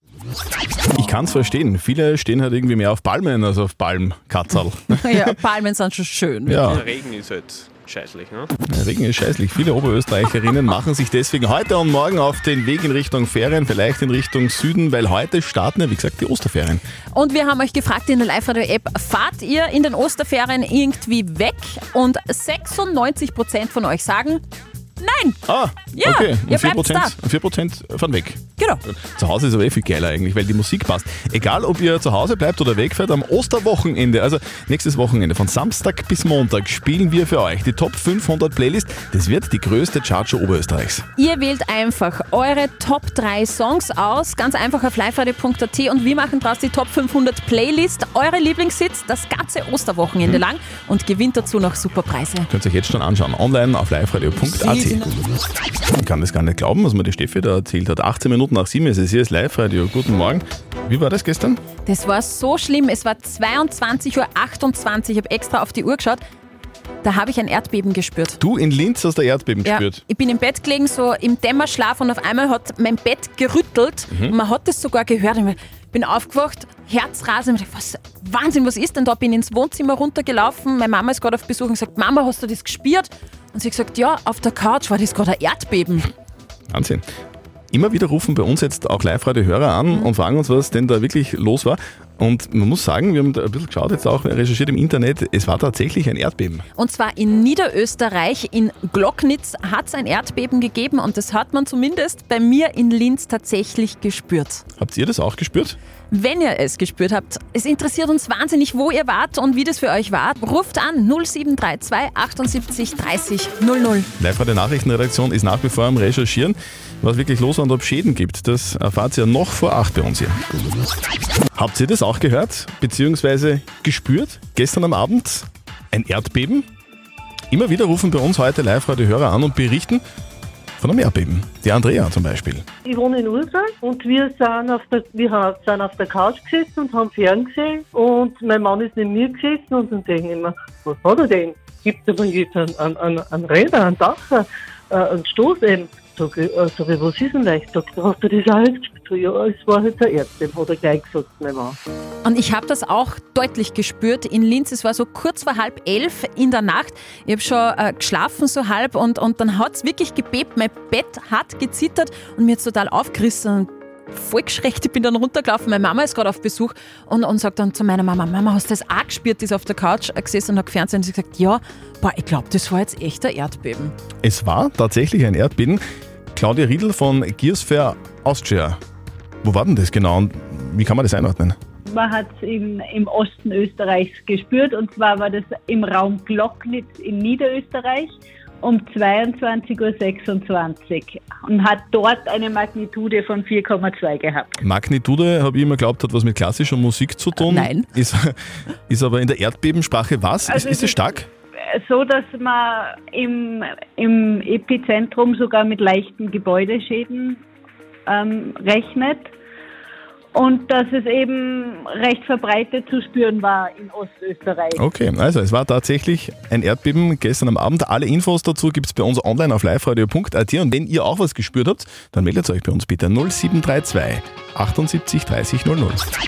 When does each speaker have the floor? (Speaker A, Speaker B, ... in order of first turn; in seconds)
Speaker A: 0.9-5.3, 6.5-6.9, 8.7-16.8, 25.4-41.0, 52.5-55.1, 56.0-61.6, 68.4-70.0, 74.1-74.3, 86.7-87.0, 87.7-96.6, 104.8-105.8, 114.2-120.3, 121.5-126.7, 127.5-130.0, 130.8-132.7, 174.2-175.8, 176.3-178.8, 179.4-181.6, 194.6-198.3, 198.9-201.2, 214.8-226.0
Speaker B: 5.0-6.7, 17.1-24.4, 25.0-25.4, 25.9-27.1, 41.2-52.5, 61.8-66.2, 67.0-68.4, 69.6-86.1, 96.8-104.6, 106.1-114.1, 152.2-173.9, 197.3-197.9
Speaker C: 6.5-8.5
Speaker D: 132.8-151.8
Speaker E: 181.9-194.6, 200.5-201.1, 201.8-207.4, 208.1-209.3, 210.3-214.8